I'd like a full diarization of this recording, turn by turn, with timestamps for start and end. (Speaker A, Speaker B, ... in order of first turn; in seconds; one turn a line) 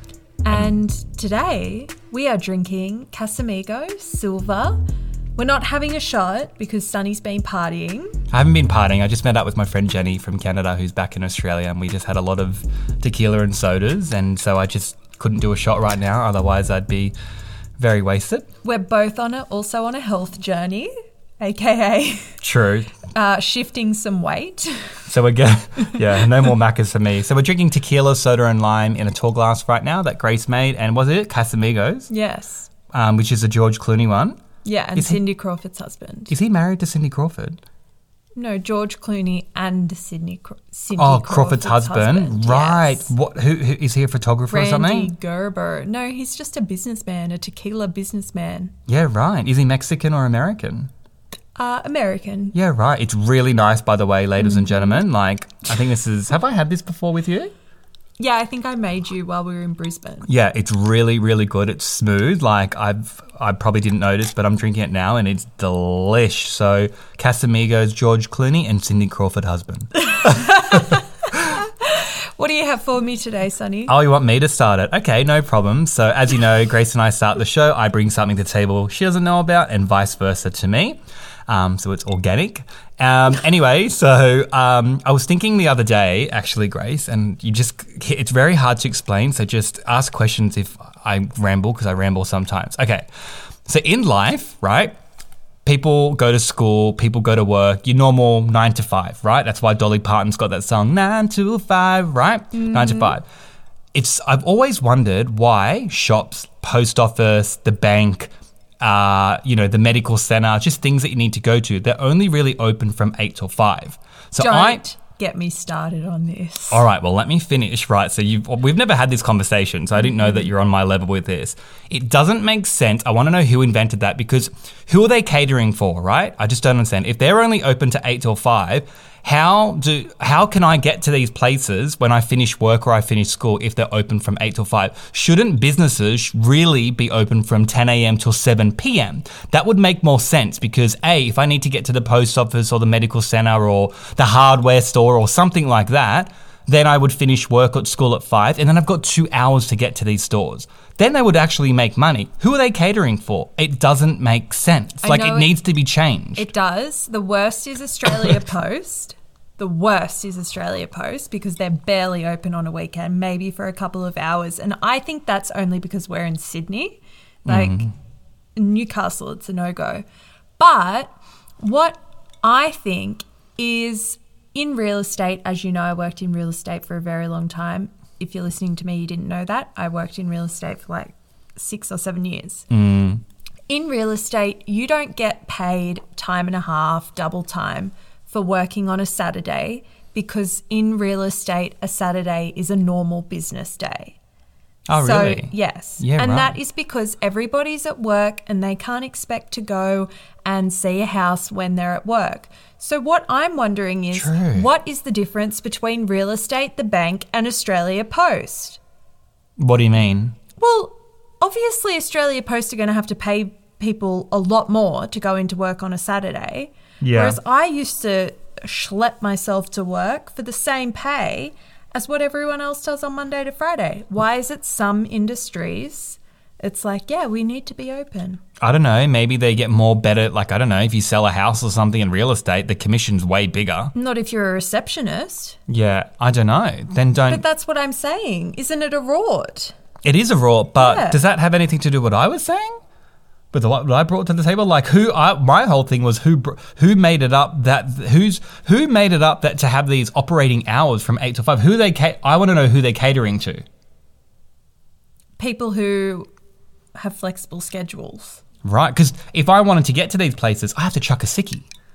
Speaker A: 0.5-4.8
Speaker A: 5.4-8.2
Speaker B: 8.3-17.1
Speaker B: 17.8-18.5
Speaker A: 18.6-22.3
Speaker B: 22.4-23.0
Speaker A: 23.1-25.0
Speaker B: 25.1-32.1
Speaker A: 32.1-32.7
Speaker B: 32.9-34.4
Speaker A: 34.6-36.3
Speaker B: 35.0-35.2
Speaker B: 36.3-37.6
Speaker A: 38.4-43.1
Speaker B: 41.0-45.1
Speaker A: 44.5-48.7
Speaker B: 48.9-50.9
Speaker A: 51.6-52.5
Speaker B: 52.5-57.5
Speaker A: 54.4-55.0
Speaker A: 58.2-60.3
Speaker B: 60.3-70.8
Speaker A: 70.1-73.9
Speaker B: 73.9-93.1
Speaker B: 93.7-95.0
Speaker B: 95.7-103.2
Speaker A: 102.5-103.2
Speaker B: 103.9-114.8
Speaker A: 114.4-116.8
Speaker B: 116.7-156.5
Speaker A: 155.0-155.5
Speaker A: 156.4-167.9
Speaker B: 167.5-167.9
Speaker A: 168.6-170.0
Speaker A: 170.6-182.7
Speaker B: 182.7-183.2
Speaker A: 183.7-194.2
Speaker B: 194.9-196.6
Speaker A: 194.9-208.8
Speaker B: 204.1-204.7
Speaker B: 209.6-210.4
Speaker A: 210.6-228.4
Speaker B: 217.0-217.4
Speaker B: 228.6-233.9
Speaker A: 233.9-235.6
Speaker B: 235.7-237.4
Speaker A: 237.3-239.8
Speaker B: 240.0-242.7
Speaker A: 240.8-241.2
Speaker B: 243.5-253.6
Speaker A: 255.4-256.3
Speaker A: 257.0-258.4
Speaker B: 258.6-261.7